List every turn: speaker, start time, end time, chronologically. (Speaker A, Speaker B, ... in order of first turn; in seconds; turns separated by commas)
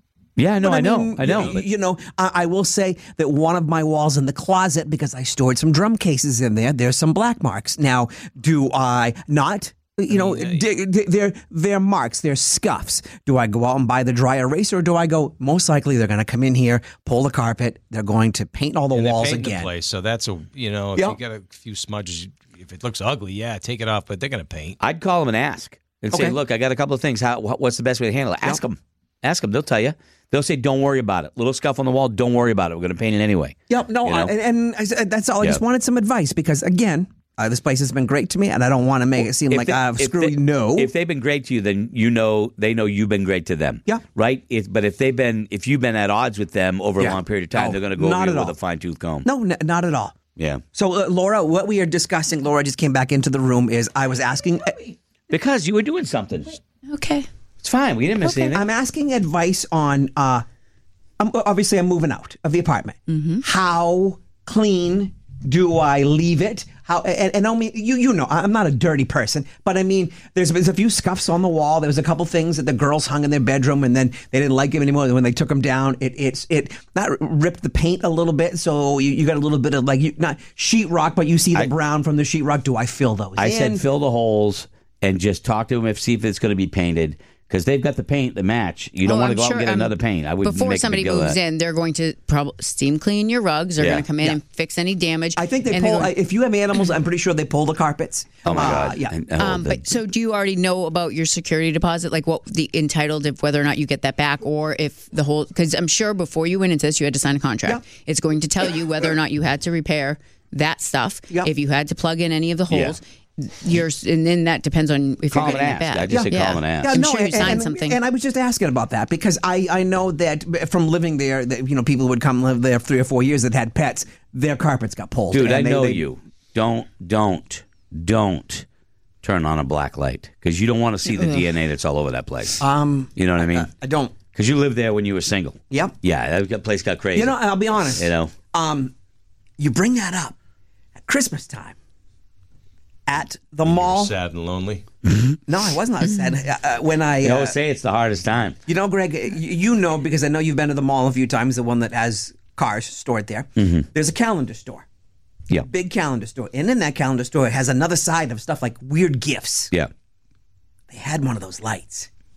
Speaker A: 0.4-1.6, Speaker B: 0.6-19.7, Speaker C: 1.2-1.6, Speaker C: 10.1-10.6, Speaker C: 18.9-24.8, Speaker A: 24.8-34.3, Speaker B: 26.1-26.4, Speaker B: 33.7-40.9, Speaker A: 39.2-49.3, Speaker B: 47.0-48.5, Speaker B: 49.2-50.1, Speaker A: 50.4-50.6, Speaker B: 50.7-54.9, Speaker A: 55.3-56.6, Speaker D: 56.9-57.3, Speaker A: 57.6-58.6, Speaker D: 58.2-58.6, Speaker B: 58.5-60.4, Speaker B: 61.2-83.8, Speaker D: 63.1-63.4, Speaker A: 83.4-91.4, Speaker D: 89.0-96.1, Speaker A: 93.8-94.0, Speaker B: 95.3-99.2, Speaker A: 98.4-100.0, Speaker D: 99.4-118.0, Speaker A: 112.7-113.0, Speaker A: 115.3-116.9, Speaker B: 116.1-126.0, Speaker A: 125.3-128.6, Speaker A: 129.2-132.6, Speaker D: 131.1-131.4, Speaker B: 132.6-134.2, Speaker A: 133.2-133.7, Speaker A: 134.3-138.3, Speaker B: 135.7-135.9, Speaker B: 137.1-138.9, Speaker B: 139.6-140.3, Speaker B: 141.0-141.8, Speaker B: 143.1-144.1, Speaker C: 143.7-144.8, Speaker B: 145.5-147.5, Speaker A: 147.2-148.6, Speaker B: 148.7-154.8, Speaker A: 153.6-153.8, Speaker B: 155.6-159.7, Speaker B: 160.9-162.1